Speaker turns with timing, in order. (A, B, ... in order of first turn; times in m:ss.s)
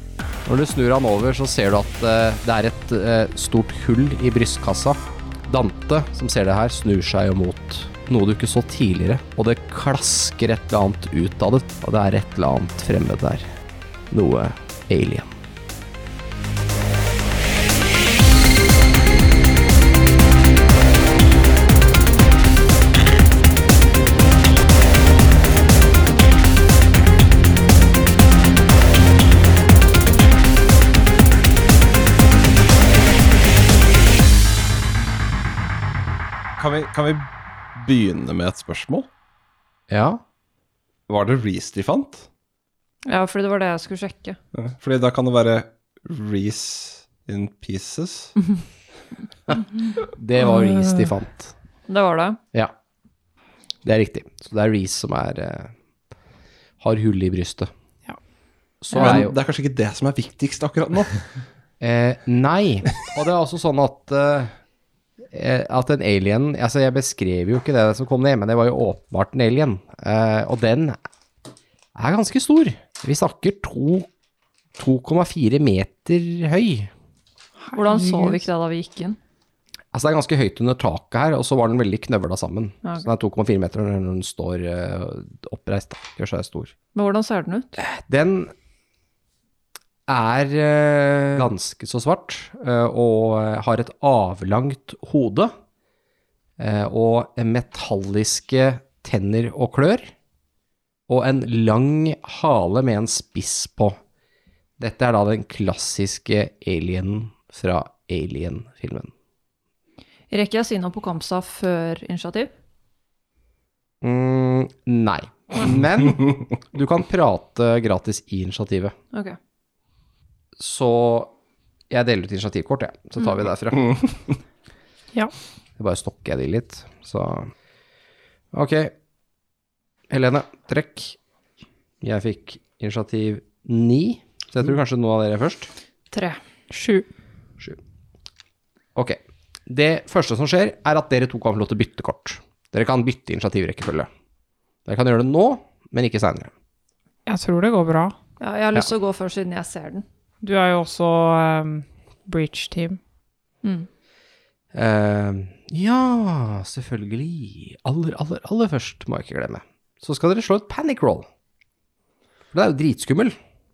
0:00.5-0:13.5 A
0:14.1-0:15.4 A
0:36.6-0:39.1 B
0:39.9-0:40.2 A
0:41.1-0:42.3 B
0:43.1-0:44.4 C
0:44.5-0:48.4 B
0:50.1-0:51.5 A
0:50.4-0:51.1 D
0:51.9-0:52.4 C
0:53.8-0:55.7 A
0:56.8-0:57.7 A
0:58.8-0:59.3 A
0:59.0-1:01.2 B
1:01.8-1:04.5 A
1:05.3-1:11.0 A
1:12.0-1:14.1 A
1:14.8-1:16.9 A
1:17.6-1:18.5 D
1:17.8-1:19.2 C
1:19.9-1:26.7 A
1:27.0-1:27.7 C
1:27.8-1:28.5 A
1:30.1-1:35.5 A
1:36.6-1:40.1 A
1:41.1-1:44.0 A
1:44.8-1:49.1 A
1:50.3-1:52.5 C
1:54.0-1:59.0 A
2:00.6-2:01.3 A
2:01.9-2:04.0 A
2:05.8-2:07.5 A
2:08.5-2:08.9 A
2:10.1-2:11.2 A
2:12.0-2:15.7 A
2:16.1-2:16.4 C
2:16.7-2:17.1 D
2:19.0-2:24.1 A
2:24.9-2:26.5 A
2:27.3-2:28.2 D
2:28.4-2:30.1 C
2:30.4-2:33.0 D
2:33.6-2:33.9 C
2:34.7-2:41.3 A
2:42.5-2:43.4 A